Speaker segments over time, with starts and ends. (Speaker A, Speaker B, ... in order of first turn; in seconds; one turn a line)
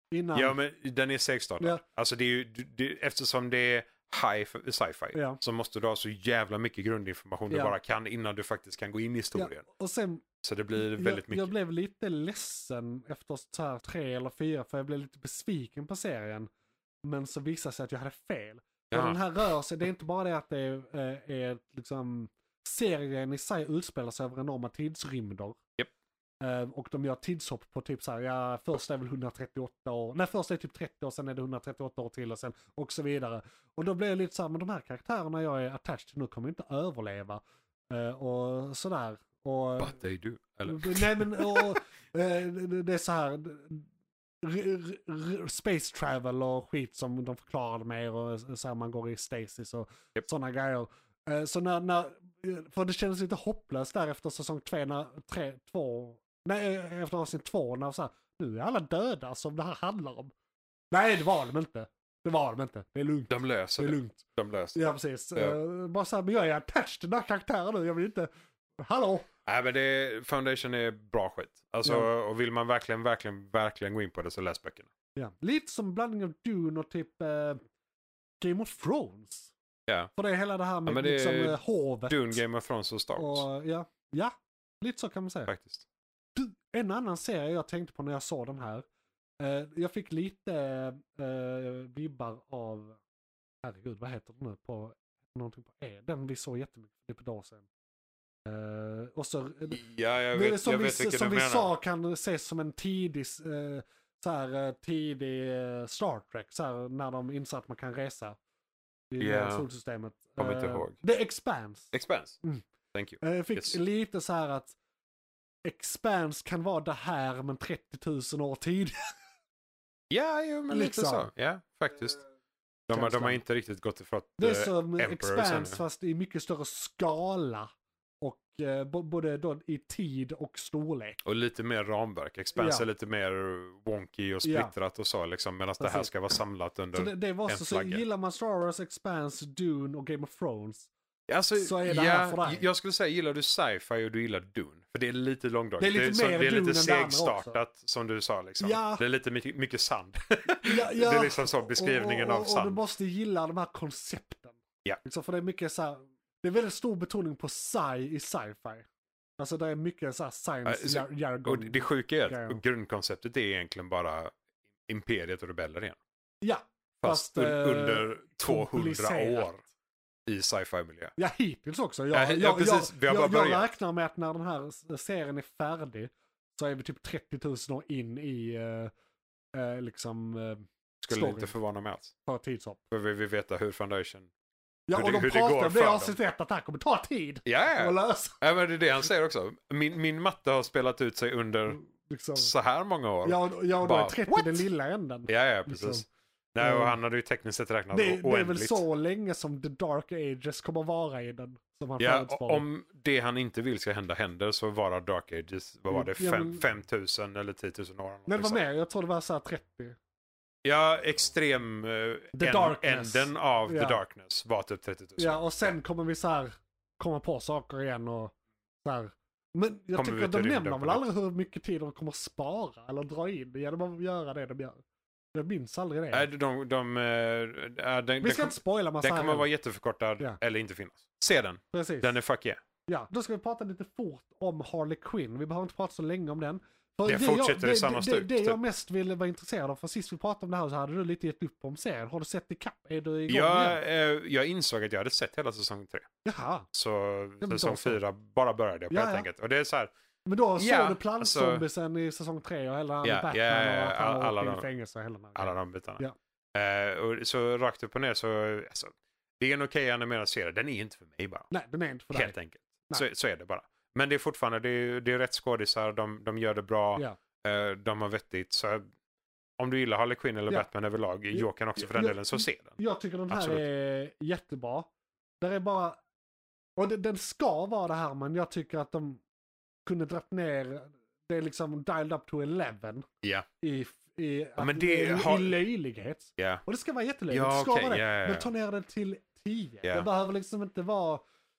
Speaker A: 0.1-0.6
Speaker B: 0.3-9.7
Speaker A: 5.1-5.4
Speaker A: 7.5-7.8
Speaker A: 9.3-16.5
Speaker B: 10.4-11.5
Speaker A: 17.1-25.6
Speaker B: 18.9-19.2
Speaker A: 26.4-40.0
Speaker B: 39.8-41.8
Speaker A: 40.7-43.9
Speaker A: 44.4-60.3
Speaker A: 60.9-69.3
Speaker B: 63.3-65.6
Speaker B: 69.5-74.9
Speaker A: 71.8-72.1
Speaker A: 75.2-77.6
Speaker A: 78.4-79.5
Speaker A: 80.2-82.4
Speaker B: 80.9-83.5
Speaker A: 83.2-85.5
Speaker B: 85.5-85.8
Speaker A: 86.3-88.8
Speaker A: 89.4-93.0
Speaker A: 93.6-97.7
Speaker A: 98.5-99.8
Speaker B: 99.7-101.7
Speaker A: 100.3-108.4
Speaker A: 109.1-112.6
Speaker B: 109.2-109.7
Speaker B: 110.4-111.0
Speaker B: 111.9-112.4
Speaker B: 112.9-113.8
Speaker A: 113.2-114.8
Speaker A: 115.7-119.1
Speaker B: 120.1-122.2
Speaker A: 120.7-121.3
Speaker B: 122.9-125.8
Speaker A: 122.9-123.4
Speaker A: 124.4-127.7
Speaker A: 128.2-131.2
Speaker B: 131.2-138.0
Speaker A: 132.6-132.9
Speaker A: 134.4-134.7
Speaker A: 135.8-136.2
Speaker A: 136.9-140.9
Speaker B: 141.3-152.8
Speaker A: 141.6-142.7
Speaker A: 145.8-147.6
Speaker A: 148.6-149.0
Speaker A: 150.7-158.9
Speaker A: 159.4-162.6
Speaker B: 160.7-164.3
Speaker B: 164.9-166.0
Speaker A: 166.4-169.6
Speaker B: 167.0-169.6
Speaker B: 170.3-171.1
Speaker A: 171.2-178.9
Speaker B: 172.1-173.7
Speaker A: 179.6-181.6
Speaker B: 181.0-182.1
Speaker A: 182.2-182.8
Speaker B: 182.9-184.3
Speaker A: 184.9-188.4
Speaker B: 184.9-186.2
Speaker B: 187.5-191.8
Speaker A: 191.7-192.5
Speaker B: 192.3-194.7
Speaker A: 193.2-196.1
Speaker B: 195.3-198.8
Speaker A: 196.6-197.0
Speaker A: 197.9-202.7
Speaker B: 202.0-208.6
Speaker A: 205.9-206.7
Speaker A: 208.3-210.0
Speaker B: 210.6-215.8
Speaker A: 212.3-214.0
Speaker A: 215.2-224.8
Speaker B: 219.9-221.0
Speaker A: 225.3-226.3
Speaker B: 226.1-232.6
Speaker A: 228.2-229.5
Speaker A: 231.7-232.2
Speaker A: 232.9-243.8
Speaker B: 237.1-238.6
Speaker B: 243.3-246.1
Speaker A: 246.2-246.7
Speaker B: 246.7-249.9
Speaker A: 247.4-248.0
Speaker A: 248.9-249.3
Speaker A: 250.3-256.1
Speaker B: 250.6-251.6
Speaker B: 253.0-254.7
Speaker B: 255.4-261.5
Speaker A: 261.5-262.4
Speaker B: 262.1-268.9
Speaker B: 269.6-272.8
Speaker A: 271.3-274.9
Speaker B: 273.3-273.6
Speaker A: 275.4-276.0
Speaker A: 276.8-279.2
Speaker A: 279.9-283.1
Speaker A: 283.6-291.2
Speaker B: 284.6-285.6
Speaker B: 286.4-286.6
Speaker B: 287.3-288.5